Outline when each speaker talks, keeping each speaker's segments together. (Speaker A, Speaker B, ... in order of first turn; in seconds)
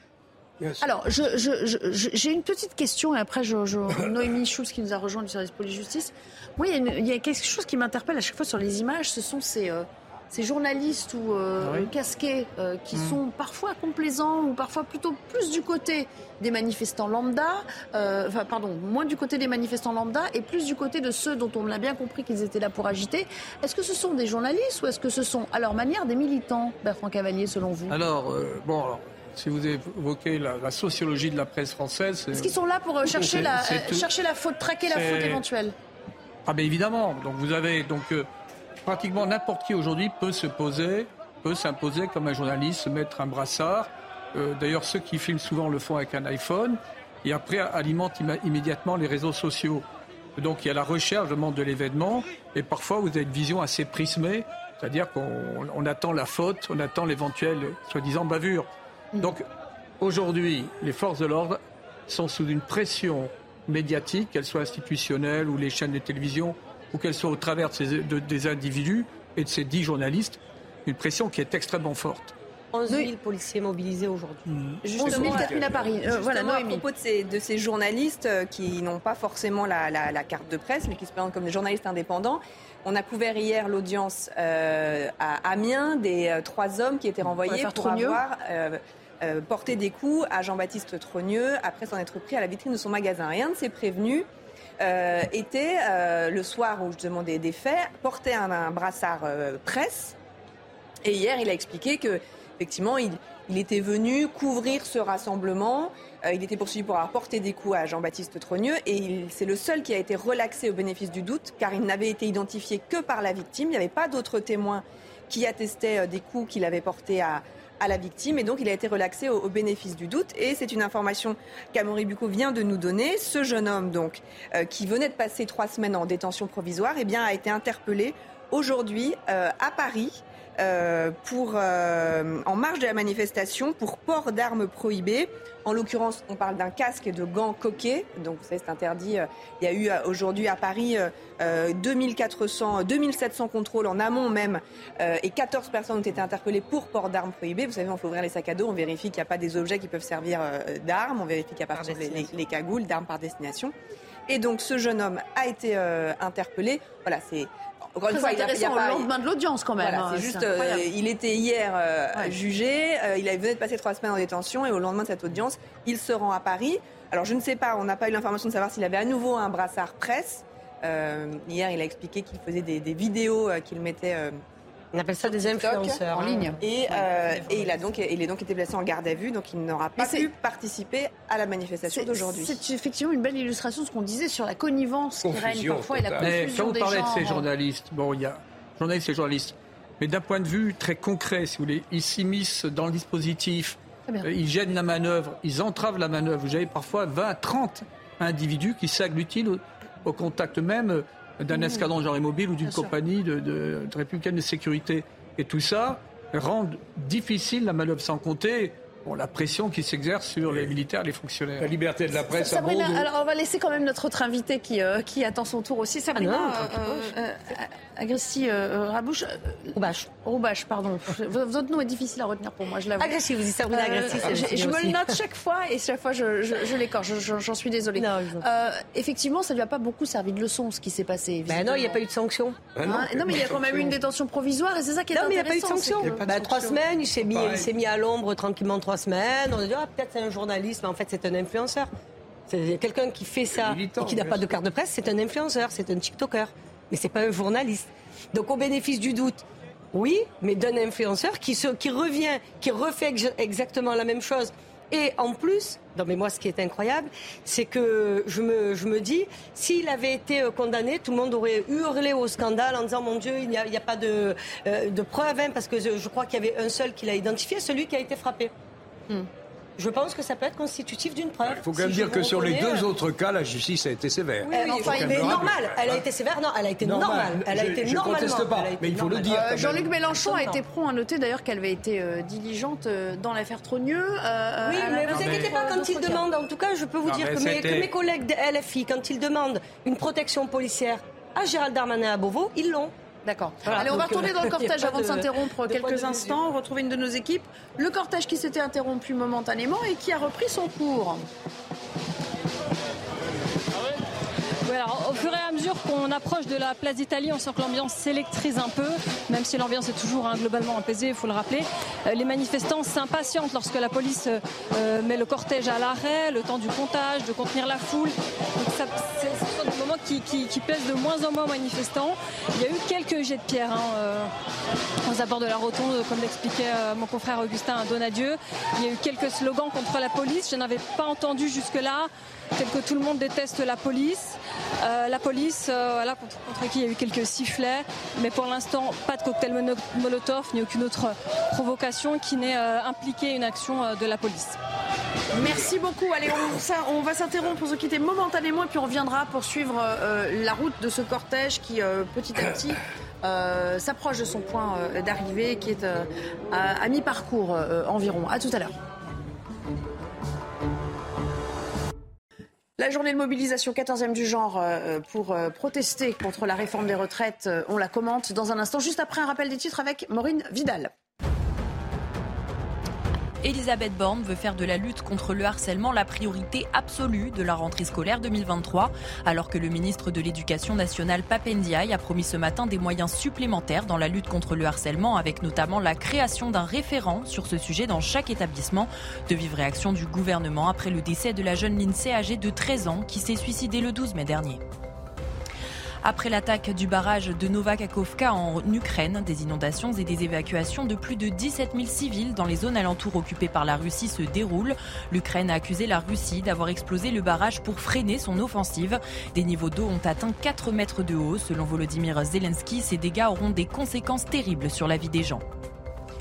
Speaker A: 0.6-0.9, 75.0-76.1, 185.2-186.4, 210.5-210.7, 211.6-213.1, 232.8-233.9, 236.0-236.8, 237.3-237.7, 243.5-244.5, 271.4-276.0, 276.8-279.9
Speaker B: 0.8-27.9, 32.3-35.7, 74.8-76.8, 87.5-88.2, 158.1-160.9, 176.1-176.6, 180.0-180.3, 181.9-187.4, 201.5-201.8, 202.7-202.9, 212.1-232.0, 232.8-236.6, 279.3-286.3, 293.2-301.2, 345.3-358.8, 362.8-370.9
Speaker C: 11.6-11.9, 12.9-13.2, 27.9-34.1, 34.9-35.4, 36.5-38.3, 38.8-49.8, 50.4-59.4, 60.0-72.3, 74.5-74.8, 186.2-211.7, 285.1-285.5, 287.0-287.9
Speaker D: 72.7-74.5, 151.7-152.3, 174.9-177.0, 216.2-217.1, 219.7-220.1, 223.0-225.2, 227.9-228.4, 231.5-232.6, 235.1-241.9, 242.5-268.5, 269.8-272.9, 274.4-279.4, 280.1-280.6, 284.6-292.9, 293.6-296.4
Speaker E: 75.0-94.3, 94.8-100.1, 101.0-153.7, 154.3-159.1, 159.8-174.4, 175.2-176.0, 176.6-182.6, 274.5-275.1
Speaker F: 304.6-324.3, 325.0-344.6
Speaker G: 373.4-394.6, 396.0-415.4